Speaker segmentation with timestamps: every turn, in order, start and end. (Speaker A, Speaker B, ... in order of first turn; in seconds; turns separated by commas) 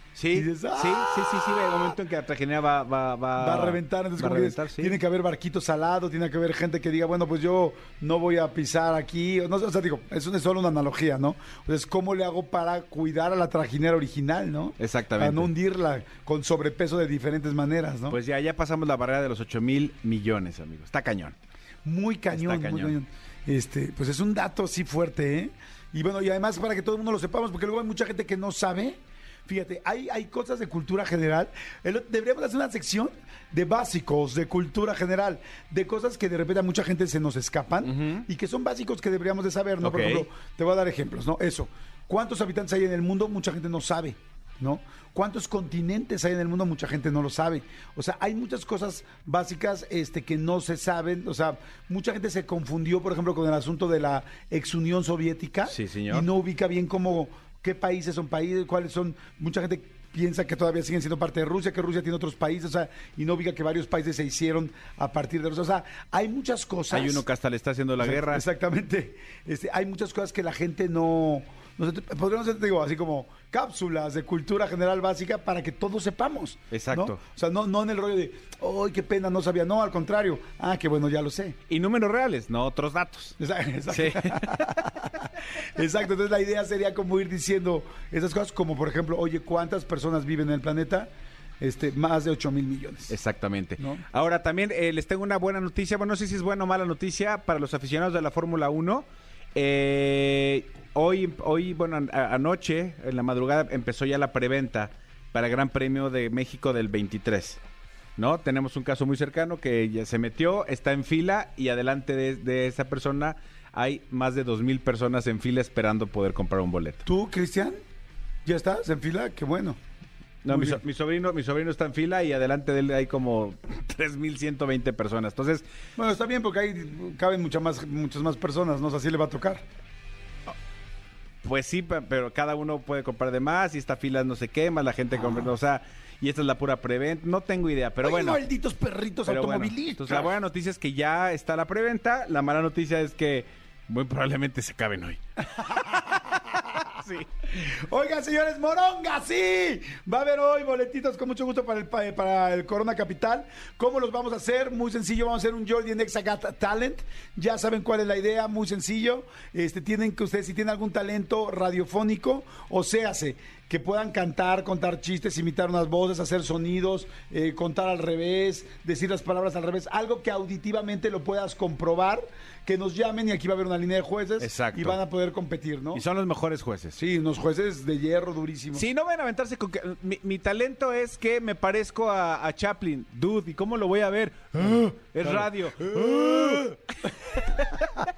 Speaker A: 0.2-5.0, Speaker B: 0.3-2.0, Speaker B: 3.4-18.2, Speaker A: 14.8-15.5, Speaker A: 18.1-21.4, Speaker B: 21.9-67.2, Speaker A: 22.3-23.0, Speaker A: 37.8-38.3, Speaker A: 39.8-40.3, Speaker A: 55.7-56.3, Speaker A: 66.9-68.4, Speaker B: 68.0-81.6, Speaker A: 76.7-77.2, Speaker A: 81.7-83.4, Speaker B: 83.4-93.2, Speaker A: 83.9-84.8, Speaker A: 93.1-107.6, Speaker B: 93.8-94.0, Speaker A: 108.2-117.0, Speaker B: 117.1-117.8, Speaker B: 118.5-119.8, Speaker A: 120.4-125.7, Speaker B: 120.5-120.8, Speaker B: 126.0-129.7, Speaker A: 131.4-138.4, Speaker B: 135.1-135.5, Speaker B: 138.0-140.3, Speaker A: 139.3-147.3, Speaker B: 145.6-146.6, Speaker B: 147.5-176.0, Speaker A: 174.4-175.0, Speaker A: 175.9-177.0, Speaker B: 177.0-178.9, Speaker A: 178.7-186.4, Speaker B: 184.6-188.0